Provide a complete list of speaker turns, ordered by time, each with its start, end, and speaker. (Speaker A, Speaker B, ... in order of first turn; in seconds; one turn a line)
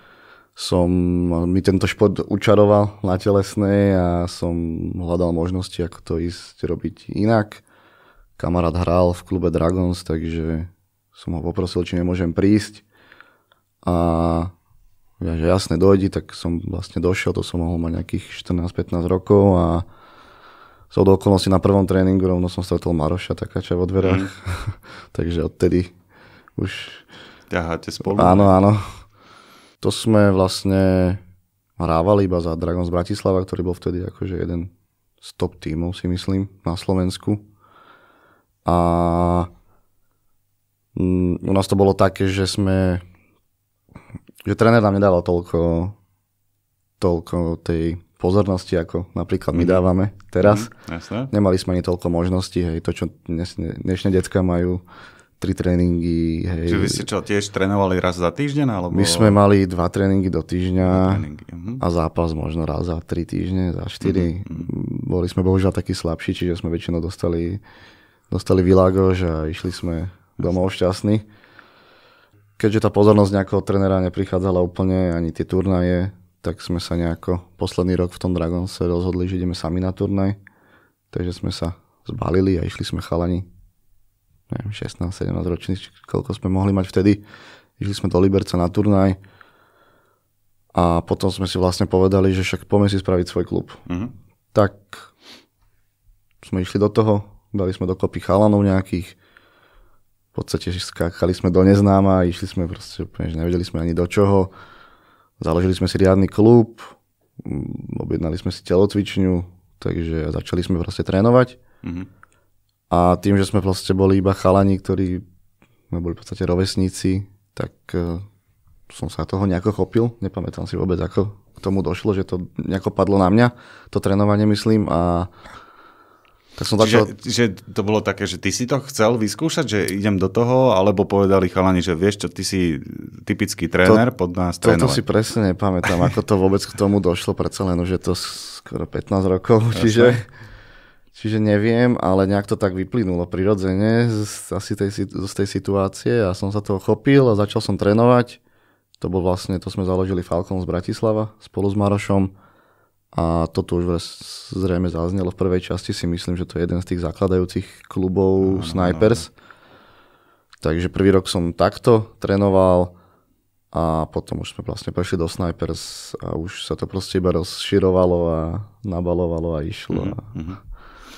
Speaker A: 0.6-7.6
Speaker A: 8.4-12.8
Speaker A: 13.8-14.5
Speaker A: 15.2-19.8
Speaker A: 20.9-25.9
Speaker B: 24.0-24.3
Speaker A: 26.6-27.0
Speaker B: 27.5-28.5
Speaker A: 28.1-28.8
Speaker A: 29.8-31.2
Speaker A: 31.8-34.7
Speaker A: 35.2-37.4
Speaker A: 38.6-39.5
Speaker A: 40.9-43.0
Speaker A: 44.4-46.0
Speaker A: 47.0-50.7
Speaker B: 49.5-49.8
Speaker B: 50.4-51.3
Speaker A: 51.3-54.8
Speaker A: 55.4-57.0
Speaker B: 56.7-59.4
Speaker A: 58.9-61.2
Speaker B: 60.9-61.8
Speaker A: 61.8-67.6
Speaker B: 64.0-64.7
Speaker A: 68.3-71.2
Speaker A: 72.6-80.4
Speaker A: 81.1-83.5
Speaker A: 84.5-87.2
Speaker A: 87.8-89.2
Speaker A: 90.7-93.8
Speaker B: 93.9-94.1
Speaker A: 94.5-95.1
Speaker A: 96.4-99.2
Speaker A: 100.3-104.5
Speaker A: 105.4-111.6
Speaker A: 112.9-115.2
Speaker A: 115.9-118.3
Speaker A: 118.9-125.3
Speaker A: 126.6-127.1
Speaker B: 126.8-135.0
Speaker A: 134.6-140.2
Speaker B: 139.7-140.2
Speaker A: 141.1-148.4
Speaker A: 149.0-152.3
Speaker A: 153.1-159.3
Speaker B: 158.4-159.2
Speaker A: 160.6-162.9
Speaker A: 163.7-170.2
Speaker B: 169.9-170.6